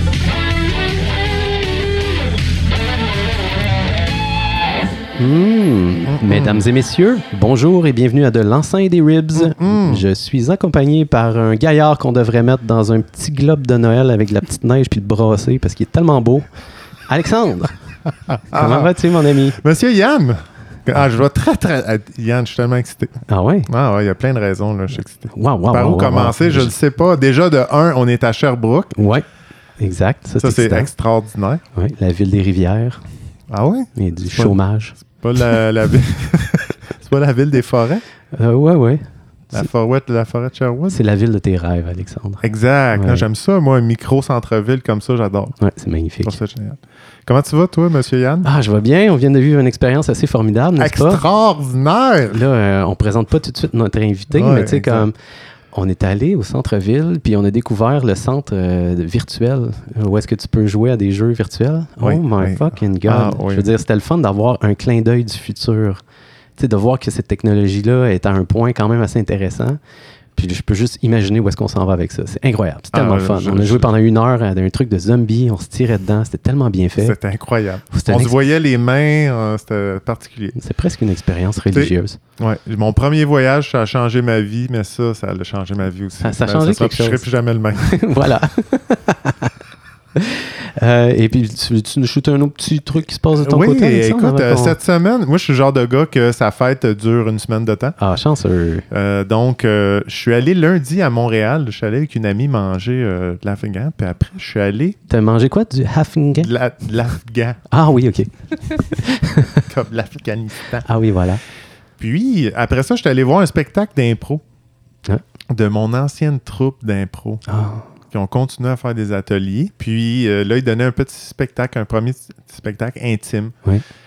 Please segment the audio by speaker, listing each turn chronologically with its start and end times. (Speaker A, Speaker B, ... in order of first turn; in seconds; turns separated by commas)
Speaker A: 5.2-16.5, Speaker B: 6.1-6.6, Speaker B: 9.4-10.0, Speaker A: 17.1-17.7, Speaker B: 18.3-19.0, Speaker A: 18.5-19.6, Speaker B: 19.6-28.9, Speaker A: 23.3-23.7, Speaker A: 25.3-26.8, Speaker A: 29.0-29.3, Speaker A: 29.8-30.9, Speaker B: 30.4-31.6, Speaker A: 31.7-33.0, Speaker B: 33.5-38.0, Speaker A: 34.0-35.0, Speaker A: 38.3-39.7, Speaker B: 39.5-41.0, Speaker A: 40.9-42.4, Speaker B: 42.4-45.6, Speaker A: 42.9-43.3, Speaker A: 45.6-46.4, Speaker B: 46.2-48.5, Speaker A: 48.4-51.2, Speaker B: 50.8-52.4, Speaker A: 52.3-55.1, Speaker B: 54.3-55.1, Speaker A: 55.7-66.0, Speaker B: 62.0-63.7, Speaker A: 66.6-69.8, Speaker A: 70.4-77.2, Speaker B: 72.9-73.9, Speaker B: 77.0-80.6, Speaker A: 77.9-78.4, Speaker A: 80.6-82.2, Speaker B: 81.7-88.0, Speaker A: 86.2-87.3, Speaker A: 87.8-89.6, Speaker A: 90.2-94.8, Speaker B: 93.3-98.0, Speaker A: 98.0-98.9, Speaker B: 98.9-105.0, Speaker A: 105.1-106.5, Speaker B: 106.4-107.6, Speaker A: 107.7-109.7, Speaker B: 109.6-110.9, Speaker A: 110.8-111.4, Speaker B: 112.0-114.4, Speaker B: 115.5-117.4, Speaker A: 117.5-117.9, Speaker B: 118.1-123.5